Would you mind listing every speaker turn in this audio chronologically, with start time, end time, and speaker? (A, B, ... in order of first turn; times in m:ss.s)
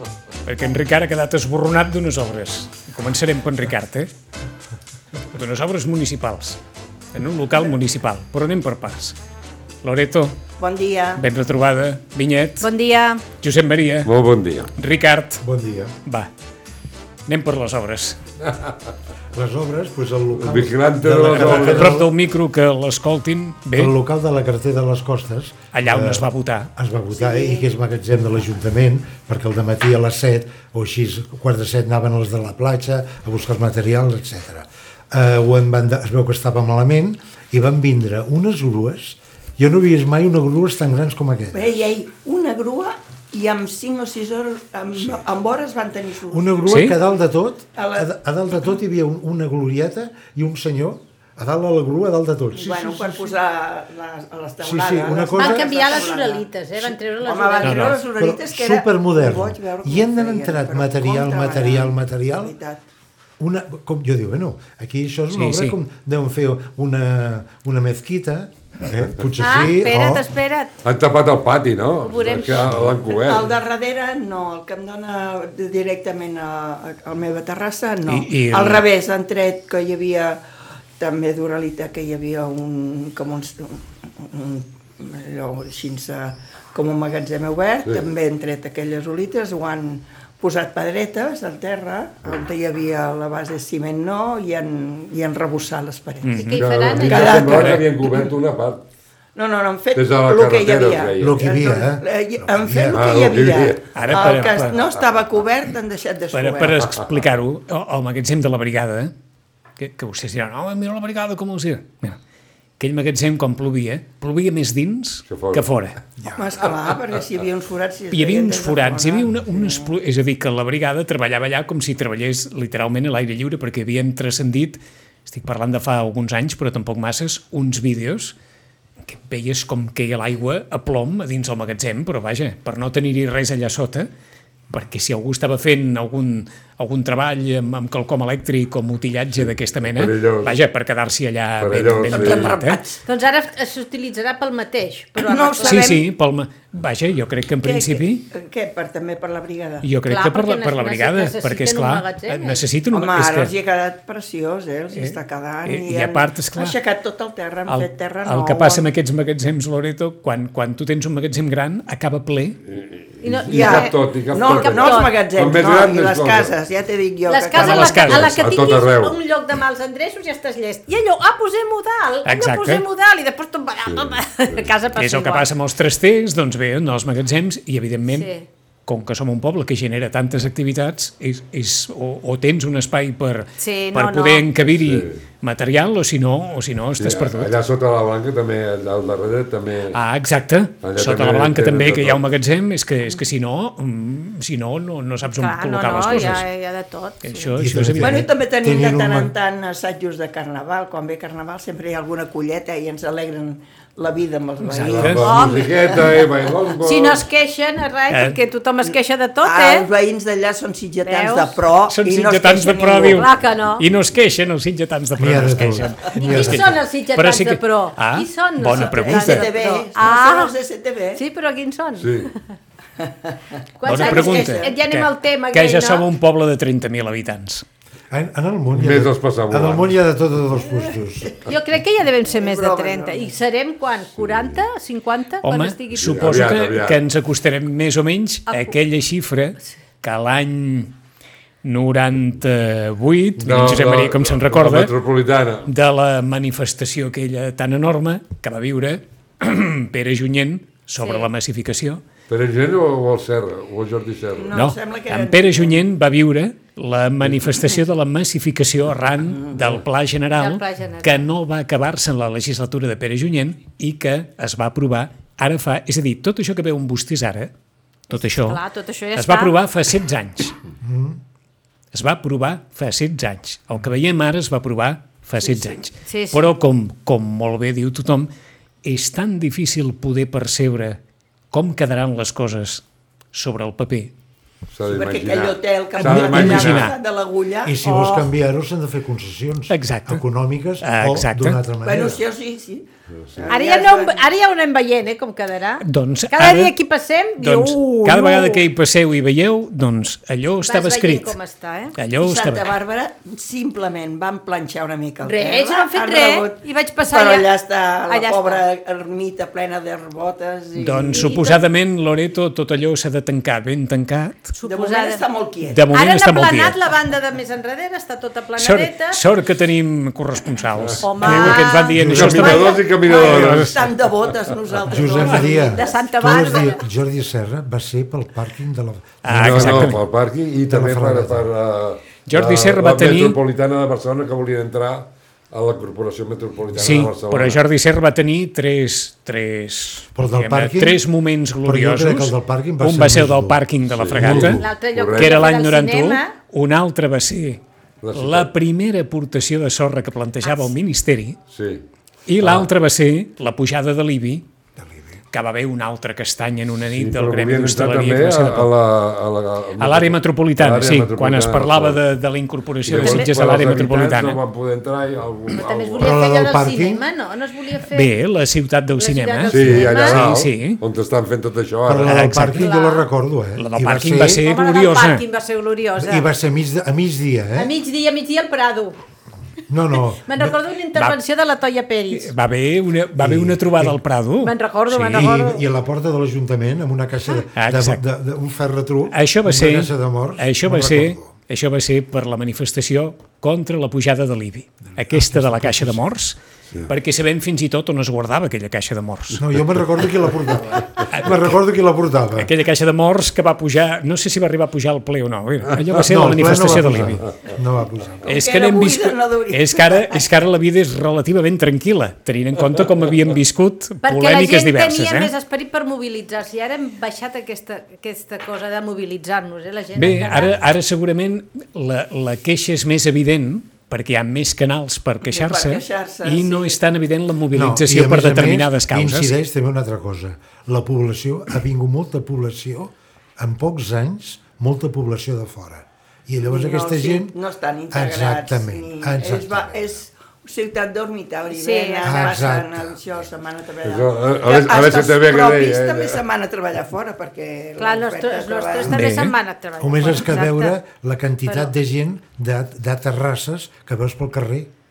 0:00.4-0:04.1 A
0:05.3-0:06.6 A
0:07.1-0:09.2 A
0:09.8-0:10.4 A
0:10.6-0:11.2 B
0:11.2-0:12.7 A
0:12.6-0:13.2 C
0:13.4-0:14.1 A
0:14.0-0:14.7 D
0:14.8-0:15.4 A
0:15.4-0:16.0 E
0:16.0-0:16.3 A
0:17.3-0:18.2 A
0:19.3-0:22.1 E
0:20.4-0:22.0 D
0:21.3-0:23.9 A
0:23.8-0:41.8 E
0:25.7-0:26.7 A
0:27.1-0:27.7 B
0:41.5-0:47.0 B
0:46.3-0:53.4 E
0:46.7-0:47.0 A
0:47.8-0:48.1 B
0:52.5-1:02.8 B
0:54.6-0:56.0 E
0:55.3-0:58.0 C
0:57.6-0:58.0 A
0:58.2-1:02.6 E
1:03.4-1:10.2 E
1:05.3-1:05.8 A
1:09.4-1:10.8 C
1:10.8-1:13.5 D
1:12.1-1:12.5 C
1:13.0-1:20.4 B
1:18.1-1:18.9 A
1:21.0-1:36.5 B
1:36.2-1:37.8 A
1:36.3-1:37.7 C
1:36.6-1:38.8 D
1:37.1-1:38.3 B
1:39.3-1:46.9 B
1:39.9-1:41.4 D
1:41.2-1:43.2 E
1:42.8-1:44.4 D
1:43.9-1:44.8 A
1:46.3-1:49.1 A
1:49.8-1:52.2 A
1:52.8-1:56.0 A
1:55.3-1:55.7 D
1:56.2-1:59.9 B
1:58.1-2:08.4 A
2:09.0-2:14.1 A
2:14.7-2:22.8 A
2:19.9-2:20.6 D
2:21.6-2:22.6 D
2:22.1-2:23.0 B
2:23.1-2:26.0 C
2:25.2-2:26.0 B
2:25.6-2:28.2 A
2:27.6-2:29.9 B
2:29.8-2:33.5 A
2:30.0-2:32.6 C
2:32.9-2:38.9 B
2:34.9-2:36.8 A
2:37.7-2:42.6 A
2:42.7-2:46.5 D
2:43.2-2:45.2 C
2:43.5-2:48.3 B
2:47.3-2:55.5 C
2:47.5-2:48.3 A
2:48.1-2:49.2 D
2:52.2-2:52.8 A
2:53.9-2:54.7 D
2:55.0-2:58.3 A
2:58.1-2:58.5 C
2:58.9-3:07.5 A
3:03.6-3:04.5 C
3:04.7-3:05.2 D
3:07.0-3:10.0 D
3:09.9-3:16.4 A
3:10.8-3:12.3 D
3:15.2-3:17.5 C
3:17.2-3:18.2 A
3:17.6-3:19.3 E
3:18.0-3:26.2 B
3:24.6-3:25.3 A
3:24.8-3:27.2 D
3:25.2-3:25.7 C
3:26.8-3:29.9 C
3:28.1-3:28.4 A
3:29.4-3:33.2 B
3:31.0-3:31.6 C
3:31.9-3:39.5 A
3:33.1-3:33.9 C
3:35.2-3:36.8 E
3:36.1-3:40.6 C
3:38.7-3:41.2 B
3:41.1-3:42.4 C
3:42.0-3:42.3 D
3:43.0-3:43.3 B
3:43.8-3:46.1 C
3:43.8-3:47.6 A
3:43.8-3:44.8 B
3:48.1-3:51.4 E
3:48.7-3:50.0 D
3:50.6-3:51.5 B
3:51.4-3:56.4 C
3:52.2-3:53.4 B
3:54.2-3:54.6 D
3:55.4-4:00.9 A
3:56.0-3:57.0 D
3:58.5-3:58.8 C
4:01.6-4:04.9 A
4:03.4-4:05.7 D
4:05.6-4:12.0 A
4:11.0-4:11.3 C
4:12.3-4:14.6 D
4:14.4-4:15.8 B
4:14.5-4:27.5 A
4:19.3-4:19.7 B
4:20.3-4:21.2 C
4:28.1-4:28.6 A
4:28.1-4:29.6 C
4:29.1-4:30.6 A
4:30.8-4:31.2 E
4:31.9-4:38.3 A
4:35.9-4:36.5 C
4:38.8-4:41.0 A
4:41.5-4:44.1 A
4:44.7-4:46.9 D
4:44.8-4:47.8 B
4:46.0-4:47.0 A
4:47.6-4:52.2 E
4:47.8-4:48.3 C
4:49.7-4:50.2 A
4:50.8-4:51.6 A
4:51.8-4:52.8 B
4:53.2-4:53.5 D
4:53.4-4:54.3 B
4:53.5-4:58.6 C
4:55.8-4:56.7 A
4:57.4-5:01.4 A
5:00.6-5:02.0 C
5:02.0-5:02.8 A
5:02.2-5:11.3 B
5:05.2-5:07.5 C
5:08.1-5:08.6 C
5:10.8-5:14.5 A
5:11.1-5:11.6 C
5:14.6-5:15.2 C
5:14.6-5:15.8 B
5:15.7-5:16.8 A
5:15.9-5:19.2 C
5:18.6-5:23.8 A
5:20.9-5:23.9 D
5:21.0-5:23.0 C
5:21.9-5:22.5 E
5:22.8-5:26.6 B
5:24.9-5:30.0 E
5:25.1-5:26.8 C
5:29.2-5:30.0 A
5:29.3-5:37.6 D
5:30.6-5:31.5 E
5:32.2-5:33.4 A
5:36.8-5:44.6 A
5:40.1-5:41.0 E
5:41.6-5:43.6 E
5:43.9-5:45.4 D
5:44.2-5:44.6 E
5:44.4-5:46.4 C
5:45.1-5:47.6 A
5:48.0-5:48.5 D
5:48.1-5:51.4 A
5:50.4-5:50.7 C
5:51.5-5:51.8 D
5:52.3-5:54.4 A
5:52.4-5:52.7 D
5:54.8-5:55.2 E
5:55.3-5:58.7 A
5:56.9-6:02.0 D
5:59.8-6:04.4 A
6:02.8-6:06.3 D
6:03.0-6:03.3 C
6:05.5-6:08.1 C
6:06.0-6:07.0 E
6:07.9-6:10.8 A
6:09.0-6:10.2 C
6:09.5-6:12.2 D
6:11.8-6:14.4 E
6:12.0-6:12.7 A
6:12.5-6:13.1 C
6:13.6-6:15.2 A
6:14.3-6:16.3 C
6:16.0-6:17.7 E
6:17.6-6:19.0 C
6:19.7-6:20.6 E
6:20.2-6:22.3 C
6:20.9-6:21.2 A
6:22.1-6:25.3 A
6:23.2-6:24.0 E
6:24.4-6:25.6 C
6:25.1-6:31.3 E
6:27.6-6:28.0 A
6:29.1-6:39.4 A
6:34.9-6:36.0 E
6:39.4-6:42.5 E
6:41.0-6:41.6 A
6:42.4-6:47.3 A
6:45.9-6:48.3 E
6:48.2-6:55.3 A
6:48.2-6:50.3 B
6:54.0-7:00.6 C
6:59.9-7:09.3 A
7:00.1-7:00.4 E
7:05.2-7:06.8 B
7:07.5-7:17.3 E
7:16.5-7:29.0 B
7:17.9-7:19.9 E
7:21.5-7:22.4 C
7:22.0-7:23.0 E
7:23.8-7:26.2 D
7:27.8-7:30.8 C
7:28.9-7:29.3 A
7:29.8-7:34.7 E
7:31.4-7:31.7 C